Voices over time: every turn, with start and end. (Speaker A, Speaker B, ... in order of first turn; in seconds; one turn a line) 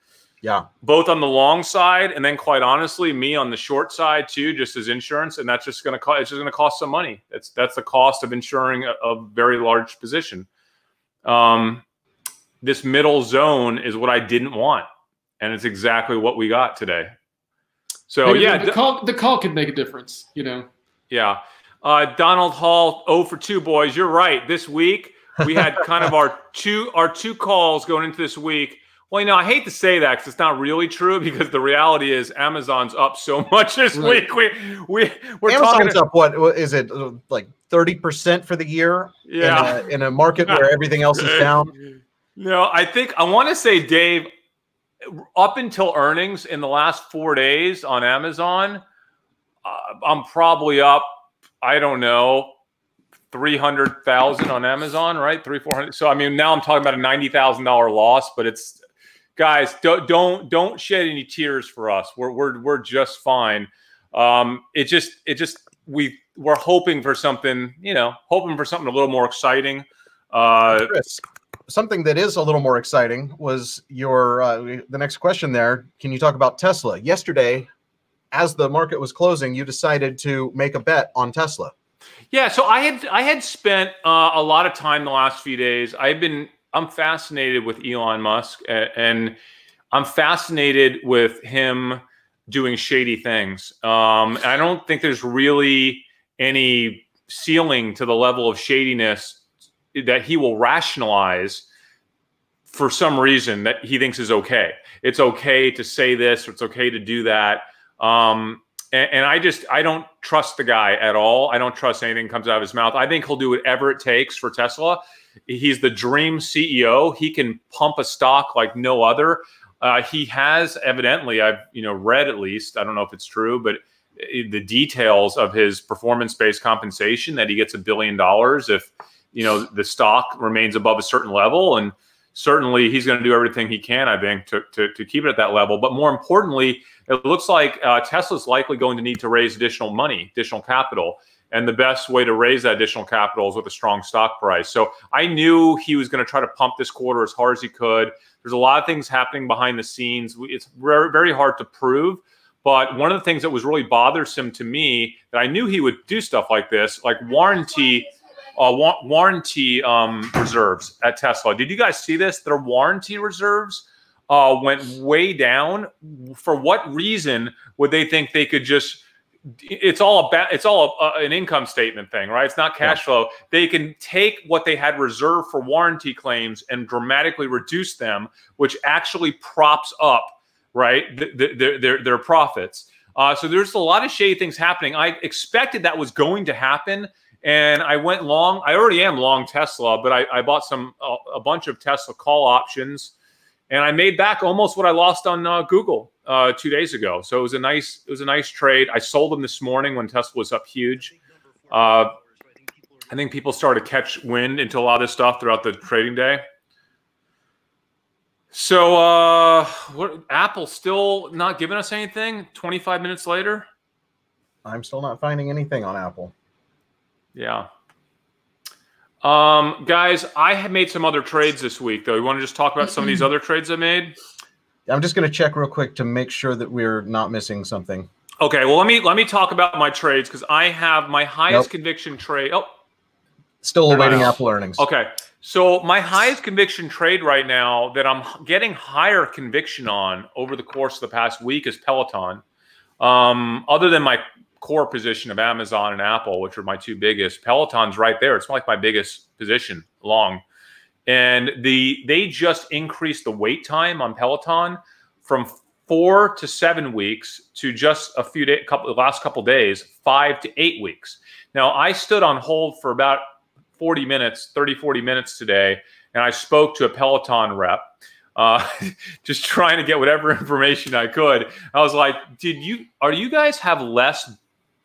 Speaker A: 0.8-10.5
Speaker A: 11.2-11.8
Speaker A: 12.6-14.8
Speaker A: 15.4-17.1
Speaker A: 18.1-18.8
Speaker B: 18.2-20.7
Speaker A: 21.1-36.0
Speaker B: 33.9-34.2
Speaker C: 35.5-41.7
Speaker A: 39.3-39.9
Speaker A: 40.5-41.6
Speaker A: 42.4-44.3
Speaker A: 45.0-48.8
Speaker A: 49.6-51.1
Speaker A: 51.6-52.5
Speaker A: 53.3-58.8
Speaker A: 59.4-71.0
Speaker C: 70.7-77.7
Speaker C: 78.3-81.7
Speaker A: 82.3-89.4
Speaker A: 89.9-99.4
Speaker A: 99.9-101.6
Speaker A: 102.7-169.0
Speaker A: 169.6-193.1
Speaker A: 193.7-201.1
Speaker A: 201.7-202.1
Speaker A: 203.1-206.4
Speaker A: 208.5-213.7
Speaker C: 214.6-216.3
Speaker A: 217.3-217.7
Speaker A: 219.2-224.2
Speaker C: 224.9-228.1
Speaker A: 228.4-232.7
Speaker C: 233.6-234.8
Speaker A: 233.9-242.4
Speaker A: 243.0-250.4
Speaker A: 251.1-263.2
Speaker A: 263.8-274.4